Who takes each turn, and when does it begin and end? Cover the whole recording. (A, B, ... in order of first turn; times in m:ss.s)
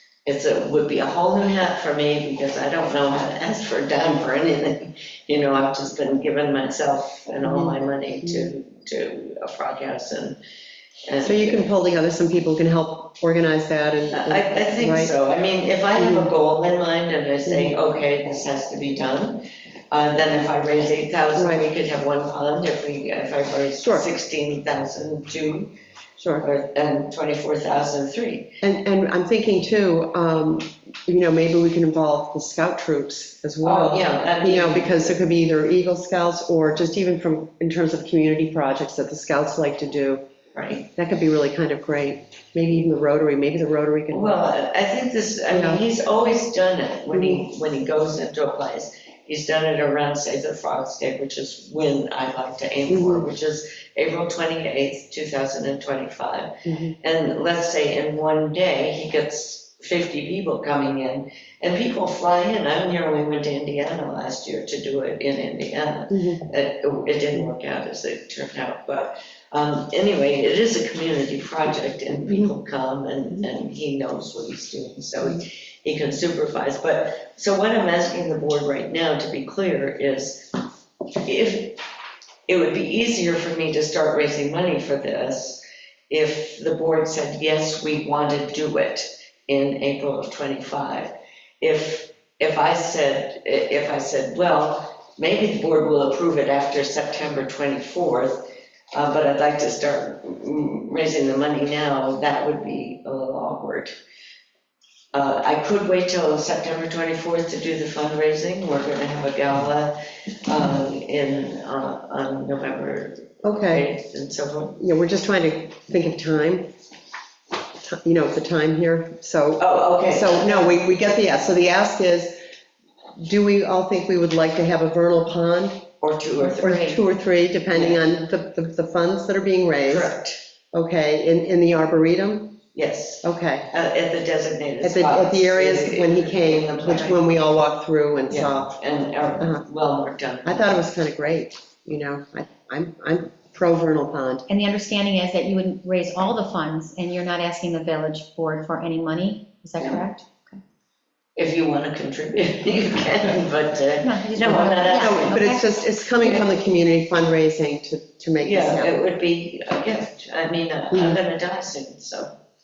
0:00.2-0:10.4 A
0:07.4-0:08.5 B
0:11.0-0:11.7 A
0:11.2-0:15.1 B
0:14.1-0:25.7 A
0:16.0-0:16.3 B
0:17.5-0:17.8 B
0:21.4-0:21.6 B
0:23.8-0:24.0 B
0:26.2-0:26.4 B
0:26.4-0:28.5 A
0:28.6-0:40.2 B
0:33.6-0:35.2 A
0:40.5-0:40.9 A
0:40.9-0:44.4 B
0:44.1-1:20.6 A
0:45.5-0:45.8 B
0:47.1-0:47.4 B
0:52.9-0:53.2 B
0:56.7-0:56.9 B
1:06.1-1:06.4 B
1:21.2-1:21.8 A
1:22.5-1:43.9 A
1:45.1-1:54.8 A
1:53.4-1:53.9 B
1:54.8-1:56.7 B
1:57.8-2:02.4 B
1:59.6-2:00.8 A
2:03.2-2:05.9 B
2:06.0-2:06.9 A
2:06.4-2:07.0 C
2:06.6-2:10.1 B
2:07.7-2:08.0 A
2:09.9-2:10.4 A
2:10.7-2:12.6 B
2:12.7-2:17.2 A
2:13.2-2:13.7 B
2:14.8-2:18.7 B
2:18.3-2:20.8 A
2:19.4-2:19.6 B
2:20.4-2:24.4 B
2:24.5-2:30.6 C
2:29.8-2:30.0 A
2:31.4-2:35.5 A
2:34.0-2:36.4 C
2:35.0-2:38.9 B
2:38.4-2:42.3 A
2:40.9-2:41.2 B